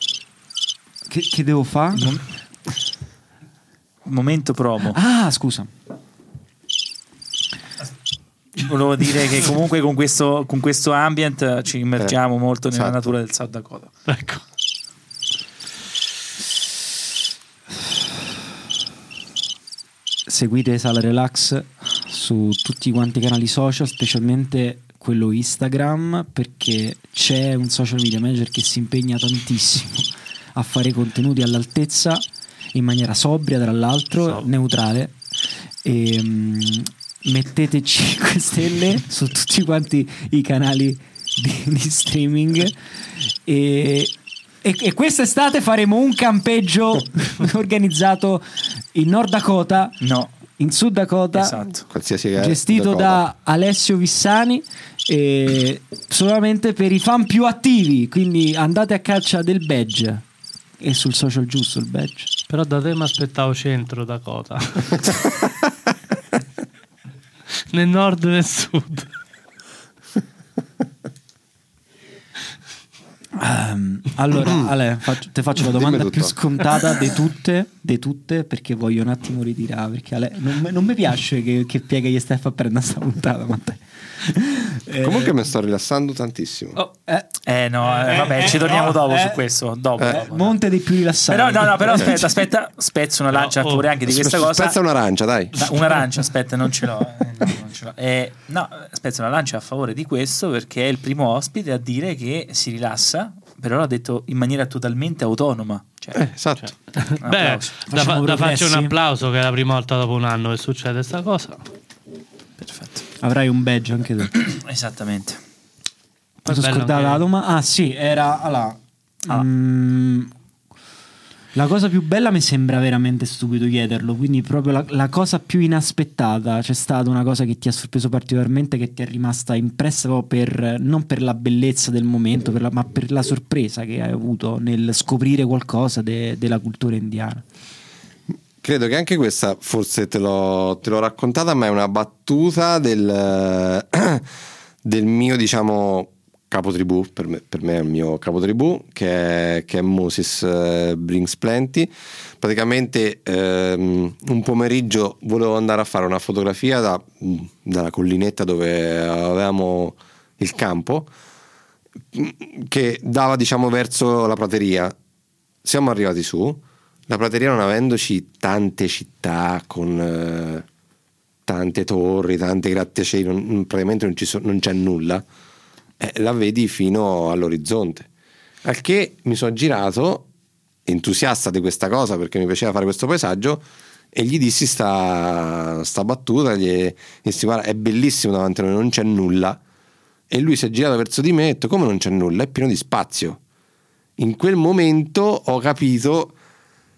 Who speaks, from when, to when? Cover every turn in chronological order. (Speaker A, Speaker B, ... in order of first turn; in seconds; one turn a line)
Speaker A: 1.1-2.2
Speaker B: 2.0-2.2
Speaker B: 4.0-5.0
Speaker A: 4.9-5.7
Speaker B: 8.6-13.9
Speaker C: 12.7-13.1
Speaker D: 14.1-14.4
Speaker A: 20.3-35.2
Speaker D: 34.2-34.5
Speaker A: 35.8-42.8
Speaker A: 43.4-50.0
Speaker B: 50.0-50.3
Speaker A: 50.6-51.6
Speaker B: 51.3-51.8
Speaker C: 51.9-53.2
Speaker A: 52.4-60.2
Speaker A: 60.8-62.3
Speaker D: 62.5-65.3
Speaker D: 67.7-69.1
Speaker A: 73.3-85.3
Speaker C: 74.3-74.7
Speaker C: 75.6-76.3
Speaker C: 85.0-86.8
Speaker A: 86.7-87.3
Speaker B: 87.5-90.6
Speaker A: 87.9-89.4
Speaker A: 90.0-92.3
Speaker B: 91.3-94.8
Speaker D: 93.3-93.9
Speaker C: 94.0-95.5
Speaker B: 95.5-106.3
Speaker C: 106.1-106.7
Speaker D: 106.6-111.6
Speaker B: 107.2-107.7
Speaker A: 107.9-108.9
Speaker B: 112.6-113.0
Speaker A: 113.2-114.3
Speaker B: 114.3-115.4
Speaker D: 116.4-117.2
Speaker A: 116.5-120.3
Speaker A: 121.5-137.4
Speaker C: 138.6-144.2
Speaker C: 144.8-161.1
Speaker C: 162.1-164.9
Speaker C: 165.6-170.7
Speaker C: 171.4-175.2
Speaker C: 176.0-178.1
Speaker C: 178.6-180.3
Speaker C: 180.8-189.6
Speaker C: 190.3-193.4
Speaker C: 194.2-196.3